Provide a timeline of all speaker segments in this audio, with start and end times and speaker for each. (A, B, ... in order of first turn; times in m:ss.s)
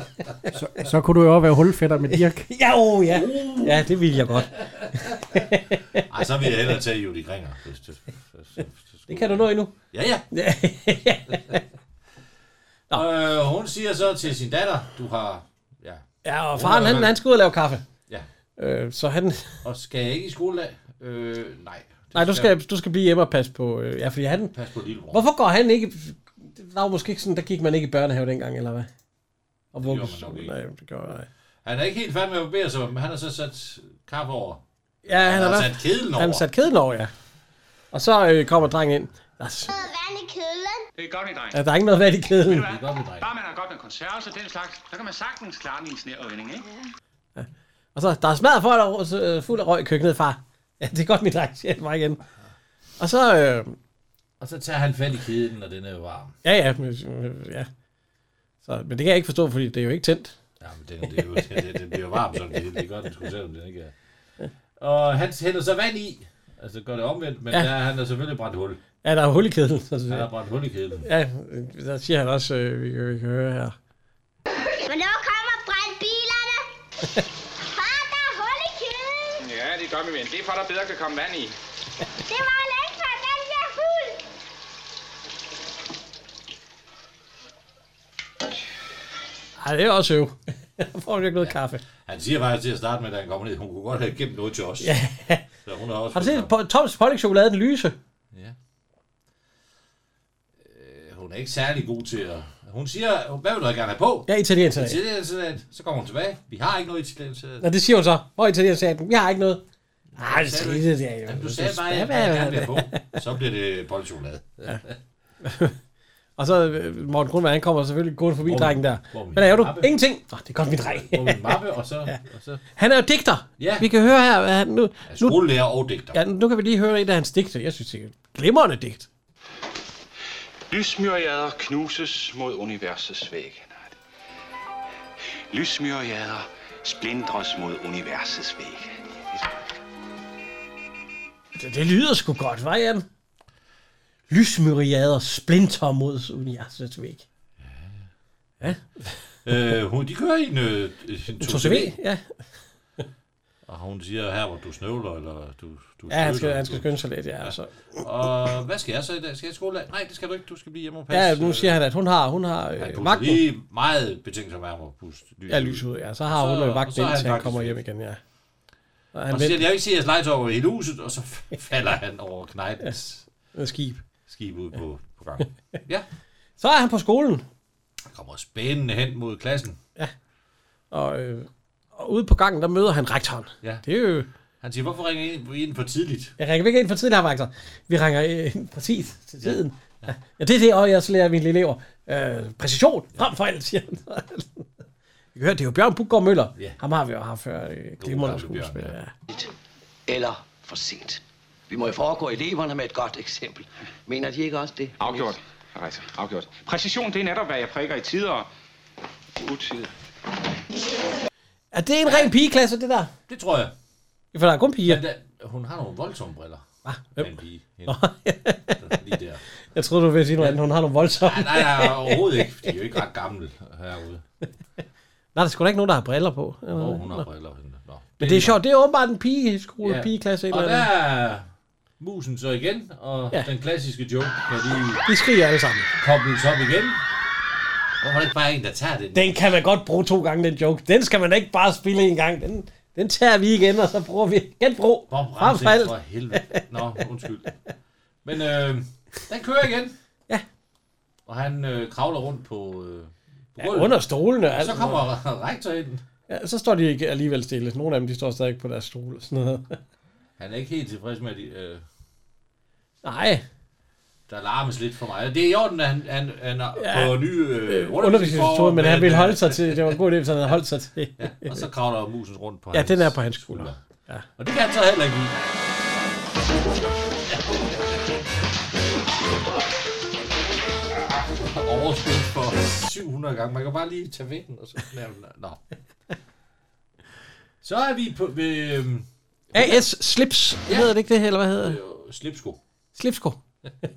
0:00.5-0:02.5 A
0:02.1-0:06.0 B
0:03.1-0:05.4 C
0:06.1-0:10.2 C
0:09.1-0:09.7 B
0:10.3-0:11.6 B
0:12.9-0:17.2 C
0:16.2-0:17.8 B
0:18.6-0:19.6 B
0:19.6-0:22.5 C
0:22.1-0:24.5 B
0:24.5-0:25.2 C
0:25.1-0:28.9 B
0:29.7-0:31.3 B
0:29.8-0:30.5 C
0:31.6-0:36.5 C
0:35.0-0:37.1 B
0:37.9-0:39.7 B
0:39.7-0:40.8 D
0:41.0-0:41.6 E
0:41.5-0:42.7 B
0:42.5-0:46.6 E
0:42.5-0:43.3 C
0:47.4-0:52.2 B
0:53.0-0:53.8 B
0:54.4-0:56.4 C
0:56.4-0:57.7 B
0:58.6-1:00.4 B
1:00.6-1:03.9 C
1:04.8-1:08.8 C
1:09.0-1:10.3 B
1:10.1-1:11.1 C
1:11.0-1:13.8 B
1:14.8-1:16.7 D
1:17.6-1:19.4 D
1:19.4-1:21.5 E
1:22.3-1:24.2 D
1:29.6-1:31.8 B
1:31.3-1:34.9 C
1:34.8-1:35.4 B
1:35.6-1:36.5 C
1:36.1-1:38.0 B
1:38.3-1:38.6 C
1:40.6-1:47.7 C
1:44.3-1:45.0 B
1:47.6-1:49.6 B
1:50.1-1:55.0 C
1:50.2-1:53.1 B
1:55.4-1:55.8 B
1:56.4-2:02.2 B
1:58.4-1:59.9 C
2:00.8-2:02.6 C
2:02.8-2:05.4 B
2:03.6-2:03.9 C
2:05.1-2:06.2 C
2:06.1-2:09.1 B
2:10.7-2:13.9 E
2:15.5-2:19.4 E
2:21.6-2:23.0 B
2:24.3-2:27.2 B
2:27.6-2:28.1 C
2:28.6-2:29.1 B
2:29.4-2:31.9 C
2:31.4-2:32.4 B
2:33.6-2:36.9 C
2:36.1-2:38.0 B
2:37.4-2:41.8 C
2:41.1-2:43.4 B
2:42.8-2:47.8 C
2:45.5-2:48.2 B
2:49.1-2:49.6 B
2:49.3-2:53.2 C
2:52.8-2:54.0 B
2:54.3-2:56.0 C
2:56.6-2:57.4 B
2:58.1-2:59.8 C
3:00.9-3:04.3 B
3:04.6-3:06.3 C
3:06.4-3:14.6 B
3:09.4-3:10.1 C
3:15.3-3:19.1 B
3:18.0-3:19.0 C
3:20.1-3:25.3 F
3:25.0-3:28.5 E
3:29.4-3:29.9 E
3:31.7-3:33.1 B
3:32.0-3:32.3 C
3:33.3-3:33.7 C
3:34.3-3:35.0 B
3:34.8-3:36.6 C
3:36.8-3:37.3 B
3:37.2-3:38.0 C
3:37.9-3:38.9 B
3:38.8-3:39.4 C
3:39.7-3:42.5 B
3:41.2-3:44.2 C
3:45.3-3:47.2 B
3:46.7-3:48.6 C
3:48.2-3:50.9 B
3:49.8-3:51.5 C
3:52.0-3:55.0 C
3:55.0-3:55.9 B
3:56.0-3:57.0 C
3:58.0-3:59.4 C
3:59.1-4:06.6 B
4:05.1-4:07.5 C
4:08.2-4:09.9 C
4:11.2-4:16.0 C
4:13.6-4:15.0 B
4:16.3-4:19.8 B
4:20.4-4:21.8 C
4:23.0-4:23.4 B
4:24.3-4:30.0 C
4:26.8-4:31.6 B
4:31.2-4:33.8 C
4:32.7-4:34.2 B
4:34.4-4:35.4 C
4:37.3-4:38.2 C
4:41.2-4:45.6 C
4:47.6-4:49.8 C
4:49.5-4:51.8 B
4:51.6-4:52.6 C
4:52.9-4:53.4 B